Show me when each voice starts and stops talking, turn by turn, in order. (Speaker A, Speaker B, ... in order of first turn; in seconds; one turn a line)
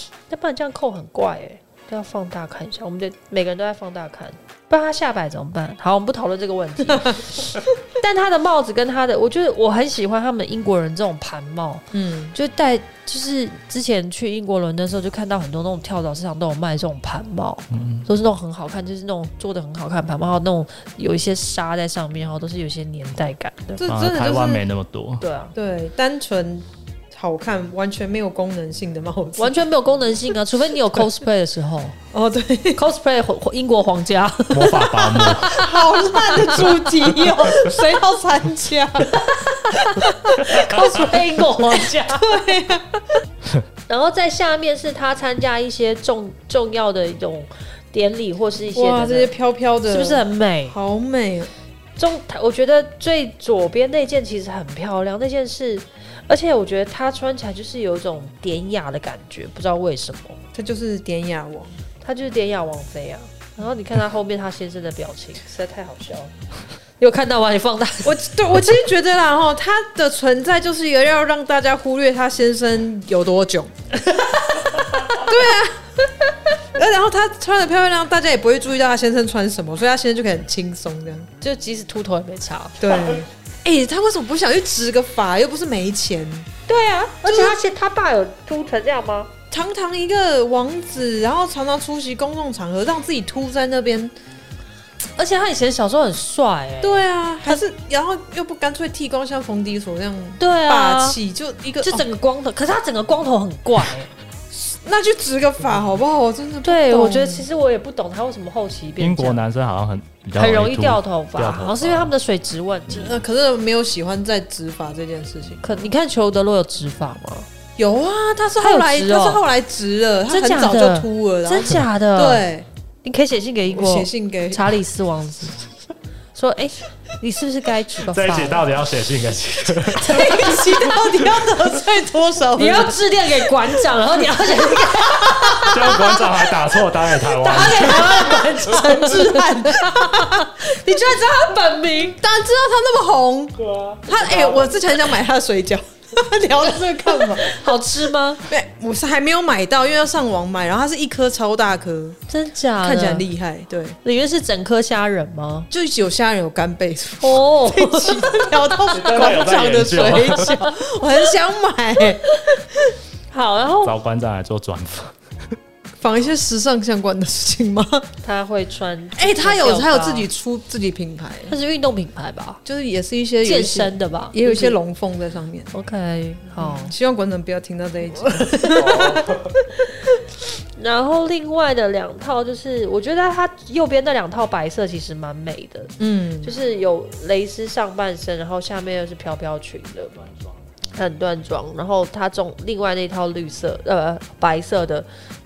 Speaker A: 0.3-23.8
Speaker B: 6.9-7.2
Speaker B: 11.9-12.3
Speaker C: 17.7-18.1
Speaker B: 23.8-24.6
Speaker C: 23.9-25.2
Speaker A: 25.2-25.5
Speaker B: 25.6-29.6
Speaker A: 29.4-32.0
Speaker B: 32.1-32.8
Speaker A: 32.8-36.8
Speaker C: 34.5-35.6
Speaker B: 35.5-39.1
Speaker A: 39.1-42.4
Speaker B: 40.0-40.8
Speaker B: 41.7-43.2
Speaker A: 43.9-49.3
Speaker B: 48.7-51.5
Speaker A: 49.9-50.8
Speaker A: 52.0-60.4
Speaker B: 60.5-61.7
Speaker A: 62.0-66.3
Speaker A: 67.0-68.3
Speaker B: 68.0-73.7
Speaker A: 74.1-75.2
Speaker B: 75.2-75.9
Speaker B: 76.7-81.3
Speaker A: 81.4-83.2
Speaker B: 82.8-86.5
Speaker A: 86.7-89.3
Speaker B: 87.3-87.6
Speaker B: 89.5-94.1
Speaker A: 95.2-97.6
Speaker B: 96.8-102.0
Speaker A: 100.4-101.2
Speaker A: 101.8-104.1
Speaker B: 104.5-107.5
Speaker A: 106.6-109.4
Speaker C: 109.0-112.1
Speaker A: 110.4-113.2
Speaker B: 112.9-115.9
Speaker A: 115.6-117.5
Speaker B: 117.8-122.7
Speaker A: 118.6-119.4
Speaker A: 120.3-122.5
Speaker A: 123.0-125.6
Speaker B: 123.7-124.7
Speaker A: 126.3-128.7
Speaker C: 128.1-131.5
Speaker A: 130.0-130.9
Speaker B: 130.0-133.0
Speaker A: 132.6-136.2
Speaker B: 134.8-136.2
Speaker C: 135.6-138.5
Speaker A: 137.4-142.2
Speaker B: 137.5-140.6
Speaker B: 142.2-147.6
Speaker C: 143.6-144.8
Speaker A: 147.0-148.5
Speaker B: 148.5-152.2
Speaker A: 152.3-153.3
Speaker B: 152.8-154.0
Speaker A: 154.0-155.7
Speaker B: 155.7-162.9
Speaker A: 157.2-158.9
Speaker C: 158.9-160.6
Speaker A: 162.2-162.6
Speaker A: 163.3-163.9
Speaker C: 163.8-165.2
Speaker B: 166.0-168.1
Speaker A: 168.2-170.3
Speaker B: 169.2-171.5
Speaker A: 171.5-172.6
Speaker B: 172.7-175.7
Speaker A: 173.4-174.8
Speaker A: 175.7-176.9
Speaker B: 176.6-179.3
Speaker A: 178.2-179.1
Speaker C: 178.8-179.6
Speaker A: 180.8-190.3
Speaker B: 186.0-186.5
Speaker A: 191.0-195.1